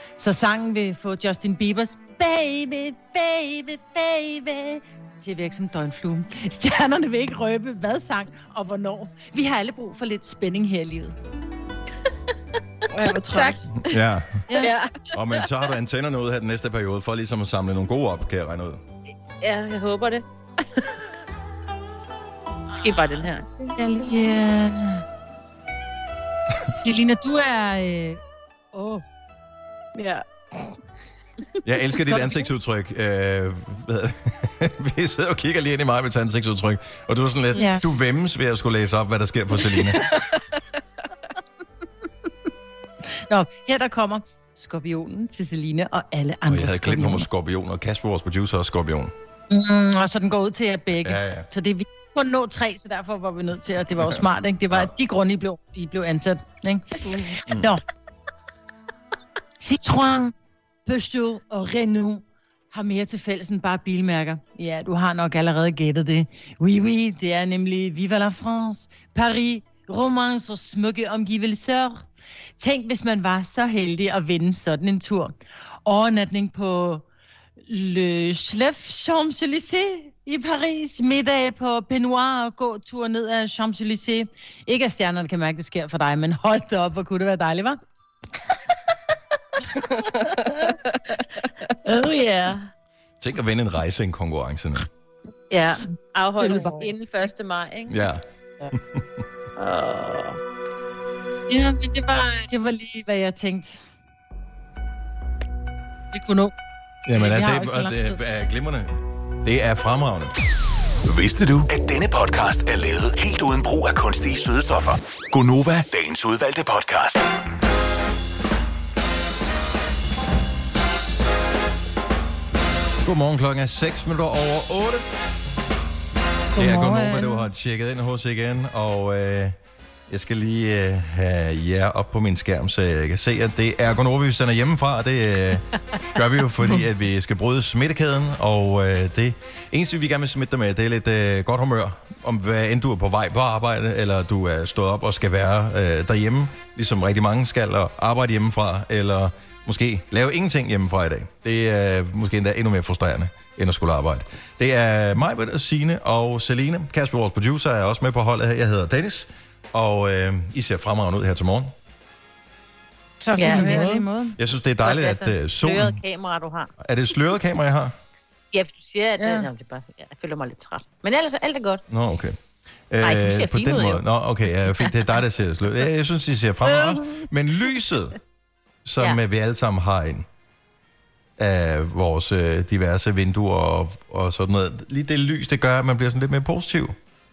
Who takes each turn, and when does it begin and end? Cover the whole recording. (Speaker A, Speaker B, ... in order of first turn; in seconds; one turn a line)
Speaker A: 0.2-11.1
Speaker B: 12.9-13.9
Speaker C: 13.3-13.6
Speaker D: 13.8-14.4
Speaker A: 14.5-14.7
Speaker C: 14.6-14.9
Speaker D: 15.1-18.8
Speaker C: 19.4-21.0
Speaker C: 22.7-23.7
Speaker A: 23.7-25.0
Speaker A: 26.8-28.2
Speaker A: 28.7-29.0
Speaker B: 29.9-30.8
Speaker D: 31.6-40.0
Speaker A: 37.5-37.8
Speaker B: 39.9-40.4
Speaker A: 43.3-47.2
Speaker D: 46.5-49.1
Speaker A: 49.5-57.8
Speaker D: 51.0-51.5
Speaker B: 57.0-57.4
Speaker A: 59.6-60.3
Speaker A: 60.9-72.0
Speaker A: 72.6-75.3
Speaker A: 75.8-77.0
Speaker A: 77.7-87.8
Speaker B: 89.9-90.7
Speaker C: 91.8-92.7
Speaker D: 93.2-94.9
Speaker C: 95.5-98.0
Speaker A: 96.4-96.9
Speaker B: 96.4-96.7
Speaker D: 97.9-99.2
Speaker C: 99.6-100.4
Speaker A: 101.5-103.8
Speaker A: 106.1-106.5
Speaker D: 107.0-110.3
Speaker A: 107.1-108.2
Speaker E: 111.0-117.3
Speaker D: 123.0-125.1
Speaker A: 126.5-127.5
Speaker D: 126.6-129.6
Speaker D: 130.1-161.7
Speaker A: 163.2-164.3
Speaker C: 163.3-164.0
Speaker D: 164.3-166.0
Speaker C: 164.8-166.7
Speaker D: 166.8-167.9
Speaker C: 168.5-171.8
Speaker A: 169.2-169.5
Speaker D: 171.9-172.4
Speaker D: 172.9-178.2
Speaker C: 173.0-174.0
Speaker C: 176.8-177.2
Speaker D: 178.8-180.3
Speaker D: 181.4-186.9